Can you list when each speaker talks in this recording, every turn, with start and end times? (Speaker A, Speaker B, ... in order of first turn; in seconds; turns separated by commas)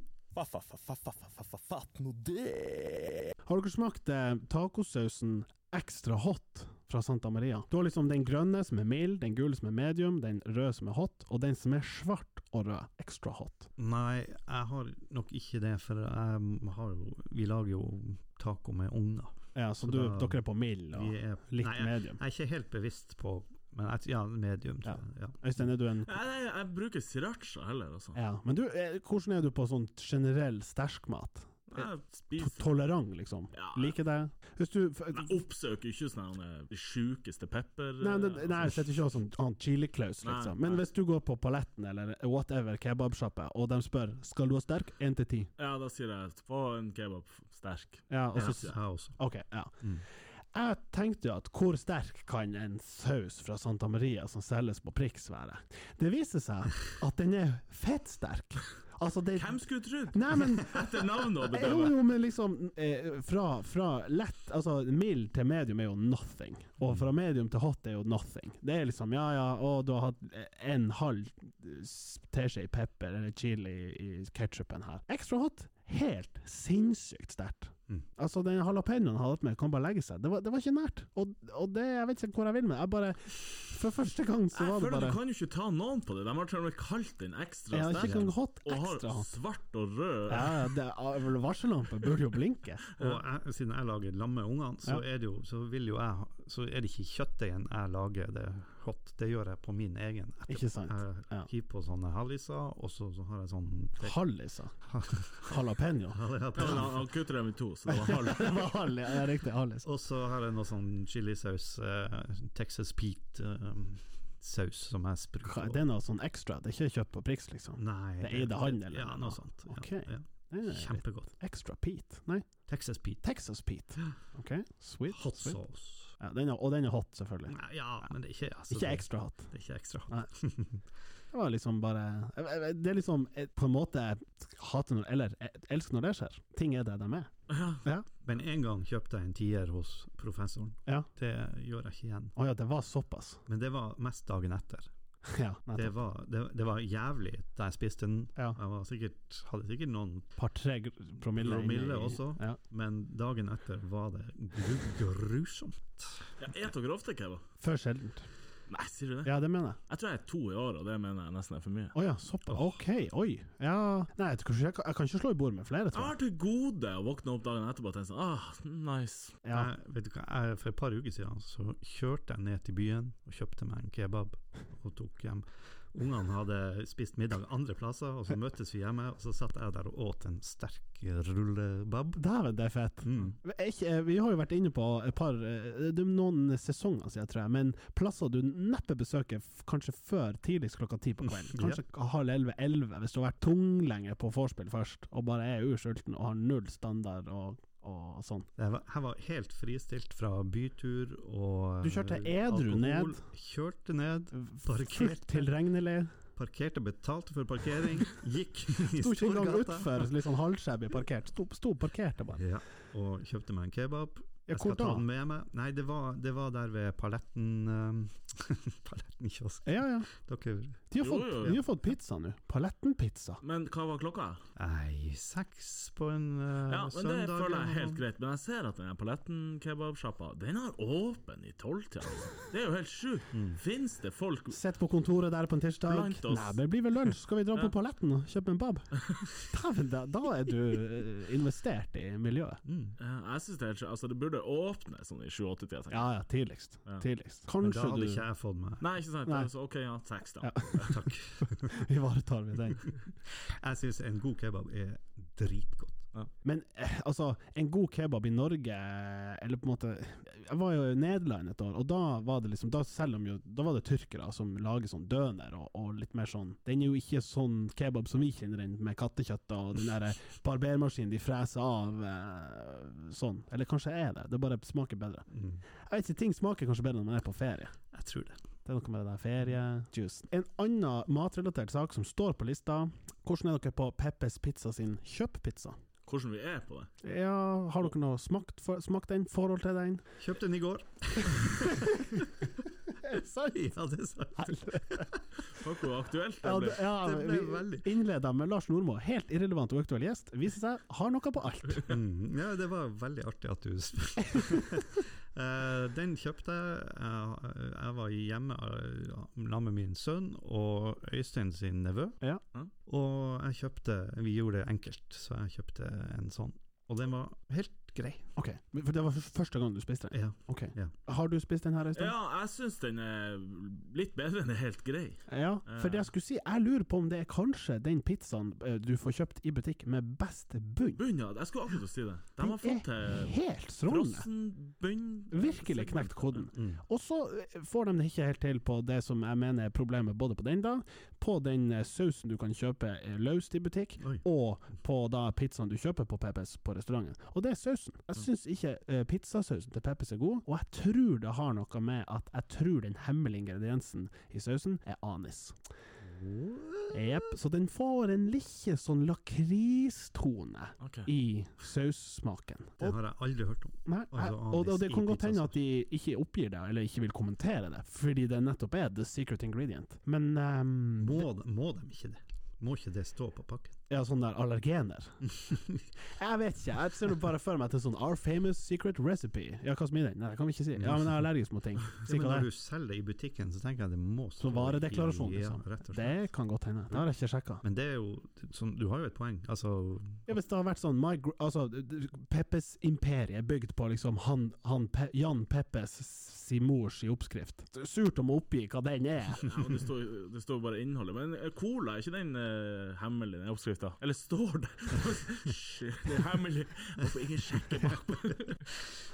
Speaker A: 0.3-3.3, Speaker B: 3.4-13.7, Speaker C: 13.8-25.4, Speaker B: 19.5-22.2, Speaker B: 24.8-26.1, Speaker D: 26.0-28.2, Speaker B: 28.1-35.4, Speaker D: 31.7-32.7, Speaker D: 33.5-34.0, Speaker D: 35.1-38.8, Speaker B: 38.0-45.5, Speaker D: 40.2-40.8, Speaker D: 45.6-48.8, Speaker B: 48.1-49.9, Speaker C: 48.4-49.2, Speaker B: 50.5-85.2, Speaker D: 59.3-62.0, Speaker D: 84.5-90.7, Speaker B: 87.7-89.3, Speaker B: 90.3-92.8, Speaker C: 93.0-104.2, Speaker B: 100.5-101.5, Speaker B: 104.0-104.8, Speaker C: 104.8-107.0, Speaker B: 105.3-106.9, Speaker D: 106.5-108.8, Speaker B: 107.9-109.9, Speaker C: 109.8-115.8, Speaker B: 115.4-122.5, Speaker C: 117.8-121.3, Speaker C: 122.7-123.2, Speaker B: 123.2-125.6, Speaker C: 125.1-126.1, Speaker B: 126.2-127.5, Speaker C: 127.5-130.8, Speaker B: 128.7-129.5, Speaker B: 131.3-138.1, Speaker D: 137.5-137.8, Speaker C: 138.2-142.3, Speaker B: 142.3-143.4, Speaker C: 143.4-144.9, Speaker B: 145.2-145.9, Speaker C: 145.7-150.3, Speaker B: 150.3-152.6, Speaker C: 151.3-156.3, Speaker D: 156.4-157.4, Speaker B: 157.6-158.3, Speaker D: 158.7-159.4, Speaker B: 159.2-159.8, Speaker D: 159.9-161.9, Speaker B: 161.9-166.2, Speaker D: 165.9-169.4, Speaker B: 169.4-169.7, Speaker C: 169.5-182.2, Speaker B: 182.2-198.5, Speaker C: 183.0-183.3, Speaker C: 191.2-191.8, Speaker C: 198.6-205.5, Speaker B: 201.8-203.2, Speaker B: 204.3-206.1, Speaker C: 206.3-210.1, Speaker B: 208.8-212.4, Speaker C: 212.3-220.9, Speaker B: 214.5-215.0, Speaker B: 219.6-220.1, Speaker B: 220.9-223.4, Speaker D: 221.0-221.6, Speaker D: 223.4-224.4, Speaker C: 224.6-228.0, Speaker D: 226.7-234.6, Speaker C: 233.3-233.6, Speaker B: 234.5-242.6, Speaker D: 235.9-236.6, Speaker D: 239.0-239.2, Speaker C: 242.6-242.9, Speaker D: 243.0-246.1, Speaker B: 245.9-248.2, Speaker C: 247.6-248.8, Speaker D: 248.8-250.9, Speaker B: 250.4-252.9, Speaker C: 250.9-251.8, Speaker C: 253.4-256.1, Speaker B: 256.4-277.7, Speaker C: 275.3-275.6, Speaker C: 277.9-278.4, Speaker B: 278.6-285.8, Speaker D: 286.1-286.9, Speaker B: 287.0-290.0, Speaker C: 290.2-292.2, Speaker B: 291.4-292.2, Speaker B: 292.9-293.7, Speaker C: 293.5-295.2, Speaker B: 294.4-295.1, Speaker D: 295.5-296.8, Speaker B: 296.4-301.9, Speaker C: 297.0-297.9, Speaker C: 301.9-312.2, Speaker C: 312.9-318.3, Speaker B: 318.4-322.1, Speaker C: 320.1-320.9, Speaker D: 321.9-326.1, Speaker B: 325.3-331.0, Speaker D: 330.9-333.3, Speaker B: 332.4-334.3, Speaker D: 333.9-336.5, Speaker B: 335.3-355.6, Speaker C: 336.5-336.8, Speaker C: 356.0-357.0, Speaker B: 356.9-363.0, Speaker D: 360.8-361.1, Speaker C: 362.8-365.5, Speaker B: 363.9-371.3, Speaker C: 371.0-373.8, Speaker B: 373.9-382.5, Speaker C: 375.4-375.8, Speaker C: 380.8-381.2, Speaker C: 382.0-386.2, Speaker B: 384.4-387.6, Speaker C: 387.6-390.3, Speaker B: 390.3-399.5, Speaker D: 399.4-408.6, Speaker C: 407.6-408.5